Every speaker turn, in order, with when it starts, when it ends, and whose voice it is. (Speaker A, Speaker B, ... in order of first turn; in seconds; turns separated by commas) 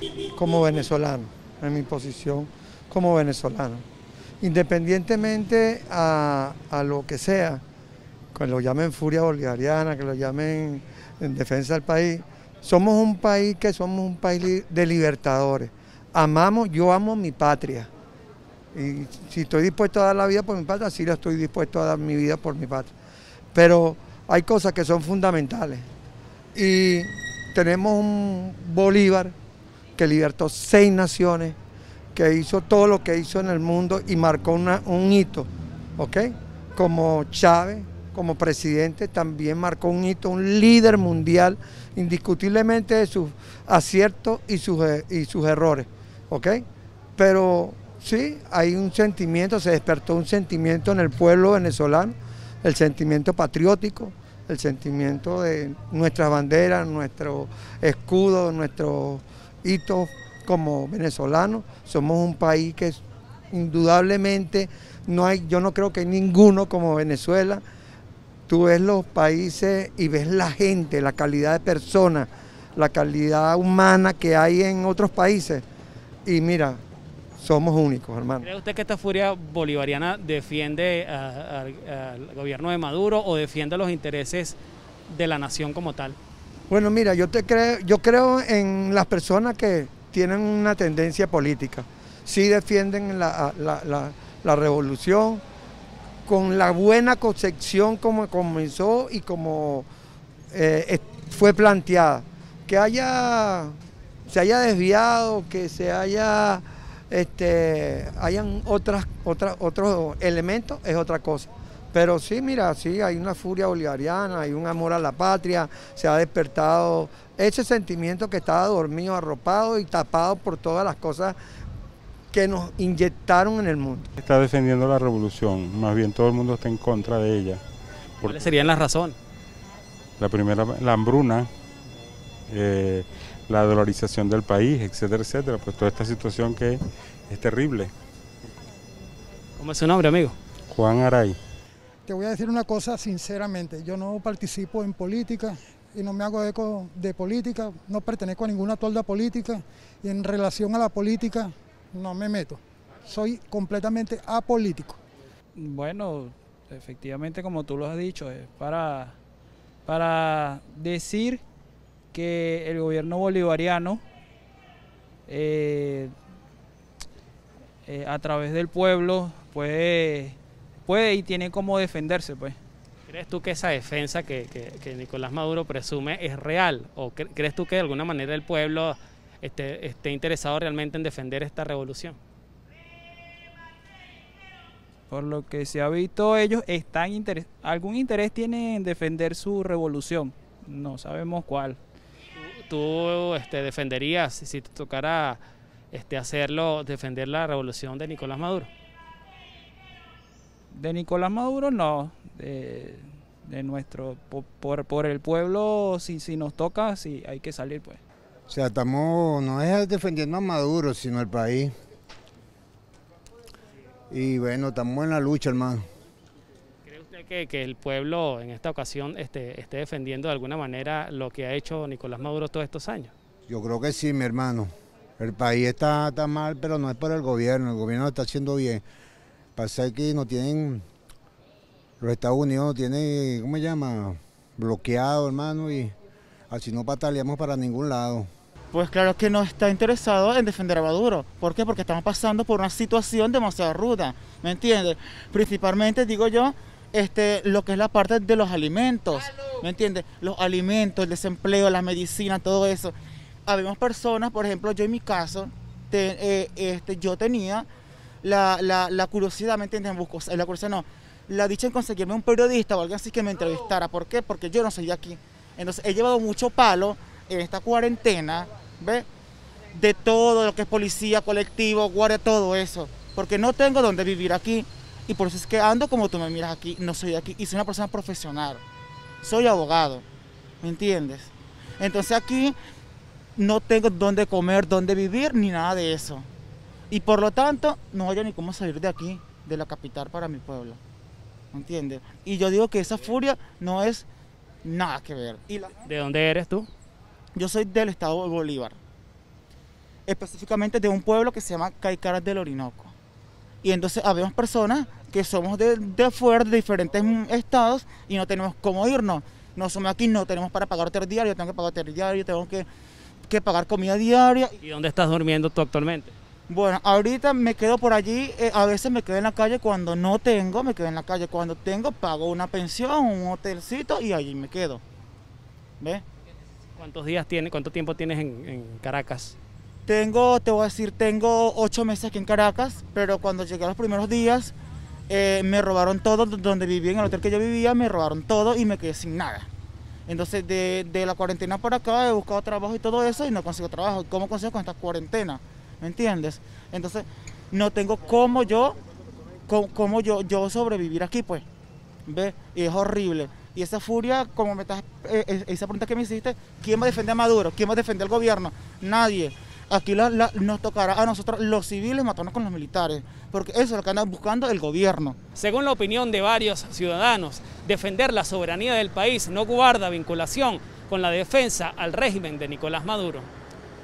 Speaker A: 0.3-3.8, Speaker A: 4.4-7.6, Speaker A: 8.3-17.9, Speaker A: 18.7-22.9, Speaker A: 23.5-25.9, Speaker A: 26.5-29.3, Speaker A: 30.0-31.6, Speaker A: 32.1-46.6, Speaker A: 47.2-67.6, Speaker A: 68.5-75.6, Speaker A: 76.2-76.8, Speaker A: 77.4-78.5, Speaker B: 78.4-86.2, Speaker A: 86.7-95.4, Speaker A: 96.2-99.9, Speaker A: 100.5-103.8, Speaker A: 104.3-121.3, Speaker A: 122.3-124.1, Speaker C: 124.2-127.6, Speaker C: 128.2-128.5, Speaker B: 128.2-129.1, Speaker C: 130.2-131.5, Speaker C: 132.5-136.8, Speaker C: 137.3-137.9, Speaker B: 139.6-140.3, Speaker C: 140.7-141.4, Speaker D: 142.1-155.0, Speaker E: 155.6-159.2, Speaker E: 159.8-161.4, Speaker E: 162.1-164.0, Speaker E: 165.3-166.1, Speaker E: 167.8-172.6, Speaker B: 173.1-182.2, Speaker E: 185.1-191.8, Speaker B: 192.3-195.4, Speaker B: 195.9-198.7, Speaker E: 200.7-208.0, Speaker F: 208.5-211.7, Speaker F: 214.1-215.8, Speaker B: 216.8-223.1, Speaker F: 223.5-228.8, Speaker F: 229.6-230.8, Speaker F: 232.0-235.9, Speaker F: 236.5-238.3, Speaker G: 238.7-252.9, Speaker G: 253.4-257.7, Speaker G: 258.2-269.1, Speaker G: 269.7-278.6, Speaker G: 279.2-280.0, Speaker G: 280.6-282.6, Speaker G: 283.4-286.3, Speaker G: 286.9-290.8, Speaker G: 291.5-294.0, Speaker G: 294.6-295.7, Speaker B: 295.8-296.7, Speaker G: 297.3-298.8, Speaker G: 300.1-302.9, Speaker G: 303.6-312.7, Speaker G: 313.3-314.6, Speaker B: 314.6-316.1, Speaker G: 316.5-324.8, Speaker B: 326.8-329.4, Speaker G: 329.9-334.5, Speaker G: 335.1-339.5, Speaker G: 340.1-348.8, Speaker G: 349.5-351.4, Speaker G: 352.1-365.1, Speaker B: 365.3-373.3